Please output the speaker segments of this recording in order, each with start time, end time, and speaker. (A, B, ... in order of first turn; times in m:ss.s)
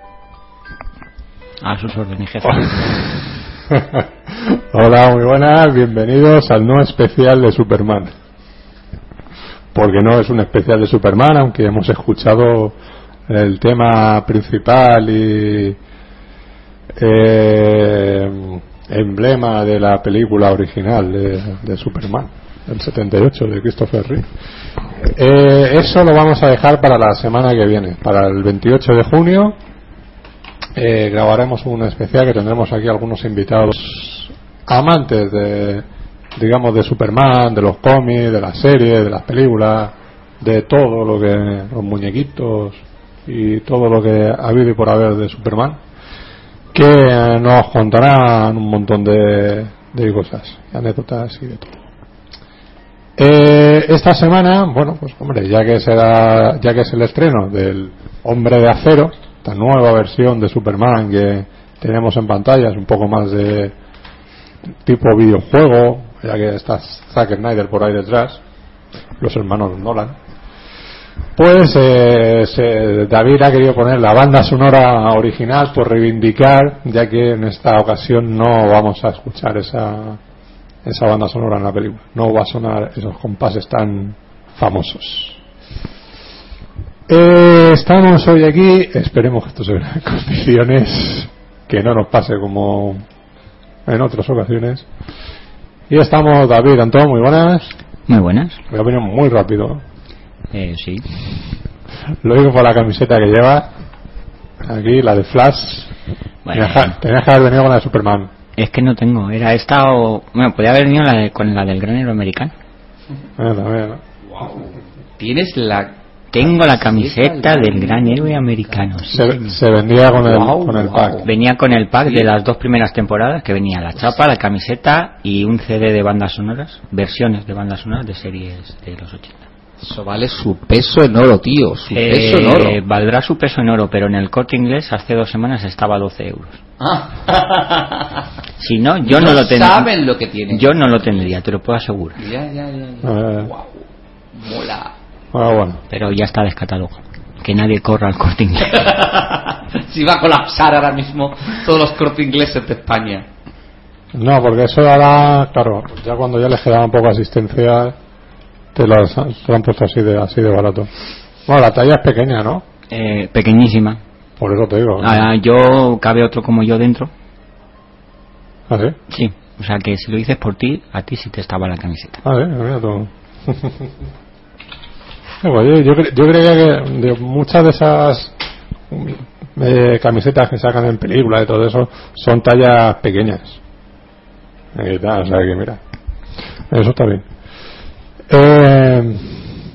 0:01.6-0:03.1 A
0:02.4-0:02.9 B
0:03.7-0:08.1 B
0:09.7-0:12.8 B
0:13.3-0:15.8 B
0:17.0-0:24.3 B
0:25.1-0:29.6 B
0:30.7-0:35.8 B
0:36.4-0:45.8 B
0:46.7-0:51.8 B
0:53.2-1:03.7 B
1:04.8-1:08.4 B
1:09.2-1:10.2 B
1:11.4-1:20.2 B
1:20.8-1:25.4 B
1:27.1-1:33.0 B
1:33.8-1:34.8 B
1:35.9-1:37.8 B
1:38.1-1:38.6 A
1:38.7-1:39.8 B
1:40.5-1:41.0 A
1:42.2-1:43.7 B
1:44.6-1:45.9 B
1:46.4-1:47.0 A
1:46.5-1:48.3 B
1:48.6-1:52.5 A
1:53.4-1:54.0 B
1:54.3-1:58.8 C
1:56.3-1:59.4 A
1:59.1-2:01.2 B
2:00.2-2:01.3 C
2:01.2-2:09.4 A
2:02.0-2:02.3 C
2:09.8-2:12.8 C
2:11.9-2:16.6 A
2:16.8-2:18.2 C
2:18.6-2:19.9 A
2:19.0-2:21.3 C
2:20.5-2:22.2 A
2:22.2-2:24.9 C
2:23.0-2:23.5 B
2:25.3-2:25.8 B
2:25.9-2:28.9 A
2:28.7-2:33.2 C
2:34.1-2:37.9 B
2:38.7-2:40.9 B
2:41.5-2:42.6 B
2:42.9-2:44.0 A
2:44.4-2:45.3 B
2:45.0-2:47.1 A
2:48.7-2:49.0 B
2:49.1-2:52.2 A
2:52.2-2:53.9 B
2:55.4-2:58.3 B
2:58.9-3:03.6 B
3:04.7-3:05.8 B
3:06.7-3:07.2 B
3:08.3-3:09.5 B